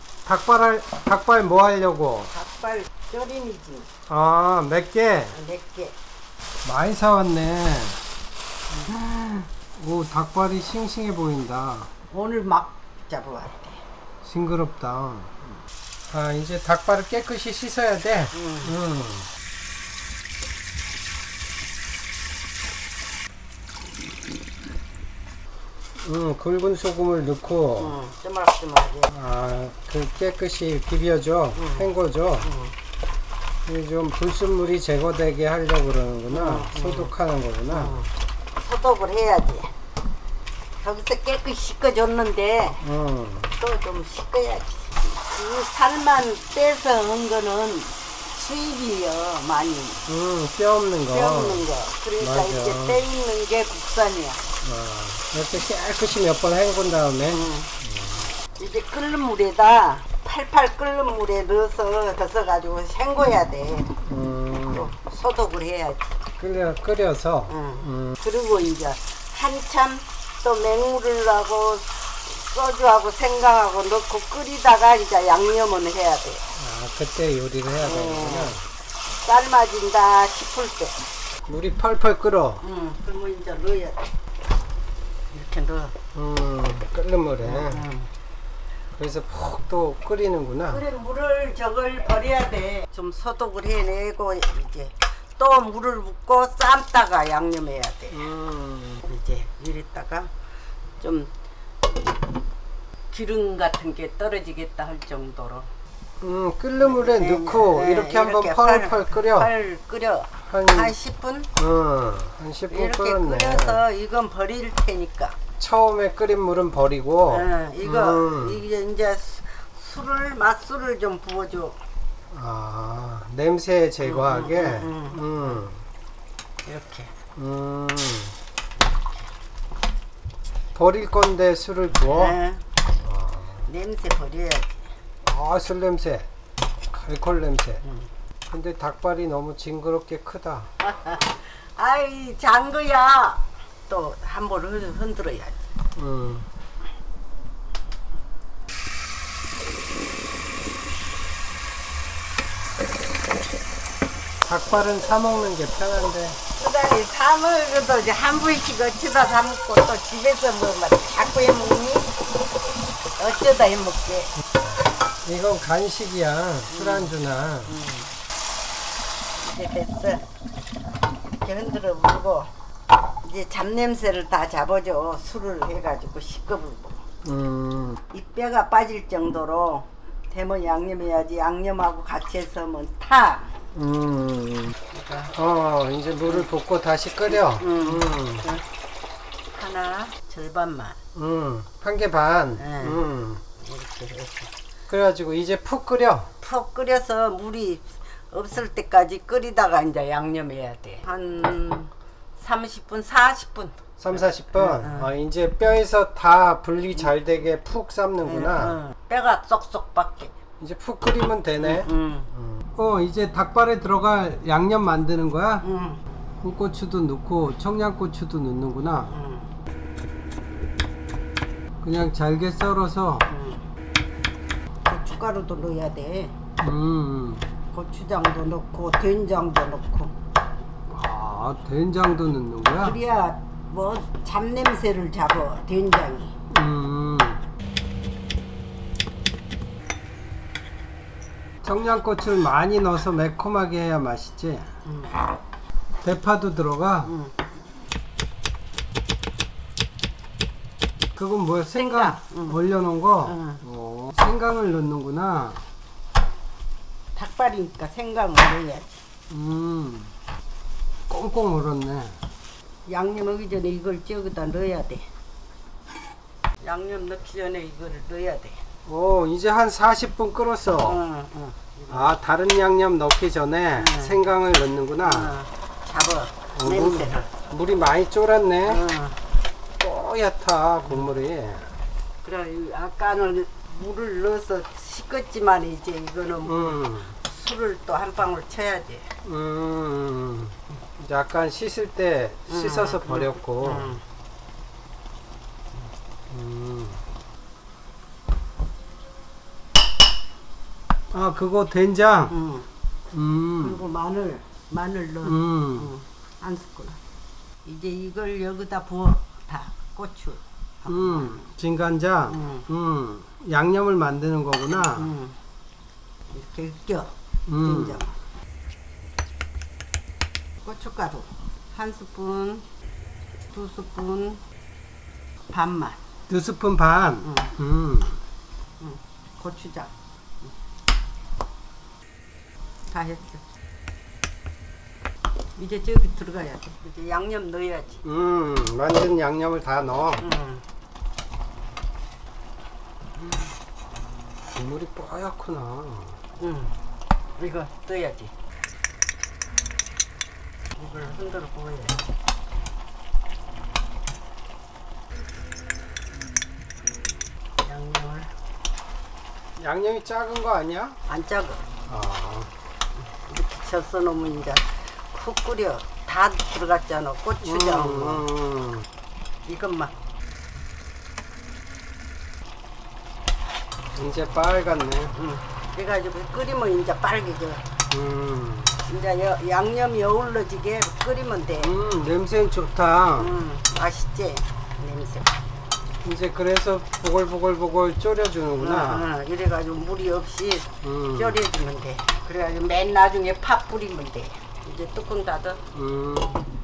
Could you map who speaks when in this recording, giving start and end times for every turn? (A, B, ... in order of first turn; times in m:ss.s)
0:00.3-0:02.3 A
0:02.3-0:03.9 B
0:04.1-0:05.4 A
0:05.3-0:06.0 B
0:06.6-0:08.0 A
0:08.9-0:11.9 A
0:12.1-0:13.8 B
0:14.2-0:19.3 A
0:18.3-0:18.8 B
0:26.0-0:28.0 A
0:27.8-0:29.1 B
0:29.1-0:32.5 A
0:31.6-0:31.9 B
0:32.4-0:32.7 B
0:33.7-0:38.0 A
0:36.3-0:37.1 B
0:37.7-0:39.7 B
0:40.8-0:42.9 B
0:42.8-0:43.6 A
0:43.6-0:50.0 B
0:50.1-0:51.7 A
0:51.1-0:54.4 B
0:52.2-0:53.0 A
0:54.6-0:58.3 A
0:57.3-0:57.7 B
0:58.6-1:03.9 B
1:04.0-1:04.9 A
1:04.7-1:06.0 B
1:06.4-1:08.2 A
1:07.5-1:16.5 B
1:16.6-1:18.7 A
1:17.8-1:18.6 B
1:19.2-1:21.1 B
1:21.5-1:22.6 A
1:22.6-1:24.0 B
1:25.3-1:25.9 B
1:26.1-1:27.8 A
1:27.4-1:28.1 B
1:29.0-1:30.8 A
1:30.7-1:38.3 B
1:38.1-1:39.0 A
1:39.0-1:40.3 B
1:41.0-1:41.3 B
1:43.1-1:45.7 B
1:46.2-1:49.5 A
1:46.8-1:51.5 B
1:50.4-1:50.9 A
1:51.6-1:53.8 A
1:52.7-1:55.4 B
1:55.6-1:58.6 A
1:57.3-2:01.8 B
2:02.3-2:05.8 A
2:04.0-2:05.6 B
2:06.6-2:07.1 B
2:07.4-2:08.4 A
2:10.7-2:12.4 A
2:12.1-2:12.6 B
2:13.0-2:13.6 A
2:13.7-2:14.9 B
2:15.2-2:16.3 A
2:16.9-2:17.8 A
2:18.5-2:20.7 A
2:20.8-2:25.6 B
2:26.0-2:26.5 A
2:34.4-2:36.4 A
2:36.6-2:42.1 B
2:43.2-2:44.3 B
2:45.2-2:47.8 A
2:46.7-2:47.1 B
2:47.7-2:48.1 B
2:49.4-2:50.2 B
2:51.4-2:52.5 B
2:53.2-2:57.0 B
2:57.2-2:58.0 A
2:58.1-3:03.6 B
3:03.7-3:04.8 A
3:04.9-3:05.4 B
3:05.3-3:08.5 A
3:07.3-3:08.6 B
3:09.5-3:11.0 B
3:11.2-3:13.4 A
3:12.6-3:13.0 B
3:13.6-3:14.5 B
3:14.9-3:16.3 A
3:16.4-3:25.1 B
3:24.0-3:28.8 A
3:28.2-3:30.3 B
3:30.6-3:35.6 A
3:31.6-3:32.3 B
3:35.6-3:36.0 B
3:36.4-3:39.2 A
3:39.1-3:39.5 B
3:41.8-3:43.3 A
3:43.3-3:43.6 B
3:44.9-3:46.4 B
3:46.6-3:47.5 A
3:47.7-3:50.1 B
3:50.9-3:53.0 A
3:52.8-3:56.4 B
3:56.5-3:57.4 A
4:01.6-4:04.7 A
4:04.8-4:05.2 B
4:06.0-4:07.1 A
4:07.0-4:07.4 B
4:11.2-4:15.7 A
4:11.7-4:12.6 B
4:13.2-4:13.6 B
4:17.2-4:19.0 B
4:19.3-4:20.1 A
4:21.1-4:22.2 A
4:22.9-4:25.1 B
4:26.6-4:28.6 B
4:28.9-4:31.0 A
4:30.8-4:32.1 B
4:31.9-4:35.4 A
4:33.8-4:34.2 B
4:35.0-4:37.3 B
4:36.6-4:38.8 A
4:38.7-4:39.2 B
4:39.8-4:41.7 A
4:42.2-4:49.1 B
4:46.5-4:47.2 A
4:49.2-4:53.9 A
4:52.5-4:54.0 B
4:56.3-4:57.0 A
5:01.1-5:02.3 A
5:02.3-5:02.7 B
5:03.1-5:03.8 A
5:03.6-5:07.0 B
5:05.2-5:05.9 A
5:07.6-5:11.5 B
5:10.9-5:15.1 A
5:12.3-5:12.7 B
5:14.8-5:15.4 B
5:16.3-5:18.2 B
5:17.5-5:18.0 A
5:20.6-5:22.7 B
5:23.5-5:24.4 B
5:25.5-5:26.0 B
5:26.3-5:28.2 A
5:27.2-5:27.5 B
5:28.8-5:29.9 B
5:32.9-5:33.4 B
5:35.6-5:38.0 B
5:38.0-5:40.2 A
5:40.2-5:40.6 B
5:43.2-5:43.5 B
5:44.5-5:46.2 A
5:46.4-5:46.8 B
5:47.4-5:48.3 B
5:50.8-5:52.1 B
5:57.6-5:58.3 B
5:59.6-6:01.0 A
6:01.1-6:01.6 B
6:01.9-6:02.5 A
6:03.2-6:08.3 B
6:07.4-6:08.9 A
6:09.5-6:09.9 B
6:13.9-6:15.1 A
6:15.1-6:17.7 B
6:17.9-6:18.8 A
6:18.8-6:21.7 B
6:21.6-6:23.4 A
6:23.2-6:25.3 B
6:26.0-6:29.1 A
6:28.6-6:35.6 B
6:30.8-6:31.4 A
6:35.7-6:36.4 A